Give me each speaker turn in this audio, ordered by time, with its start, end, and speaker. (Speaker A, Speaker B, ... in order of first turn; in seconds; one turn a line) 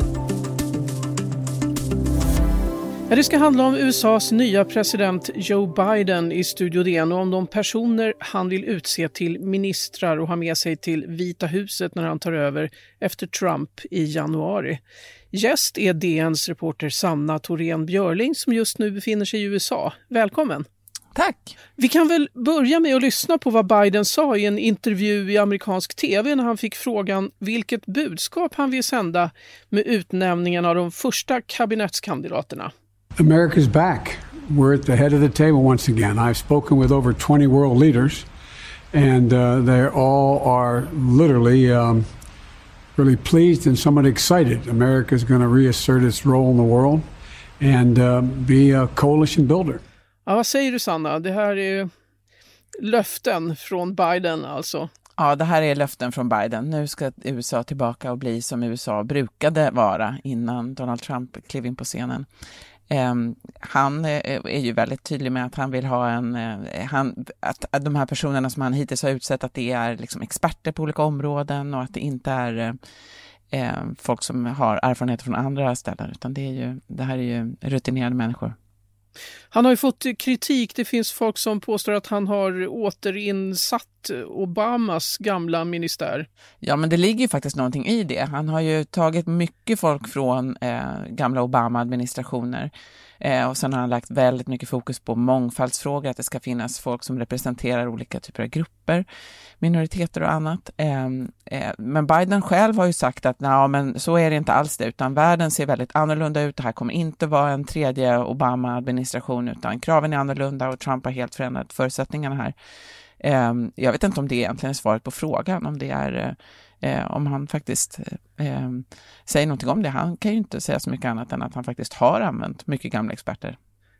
Speaker A: 3.1-14.8
Speaker A: 15.3-20.6
Speaker B: 21.1-21.5
Speaker A: 21.8-32.7
Speaker C: 33.2-38.3
Speaker C: 38.9-42.1
Speaker C: 43.0-47.0
Speaker C: 47.6-49.8
Speaker A: 50.2-51.9
Speaker A: 52.8-54.9
Speaker B: 55.2-62.2
Speaker B: 62.9-72.7
Speaker B: 73.5-78.5
Speaker A: 79.5-86.3
Speaker B: 86.6-92.7
Speaker B: 93.2-99.0
Speaker B: 99.6-112.5
Speaker B: 113.2-123.6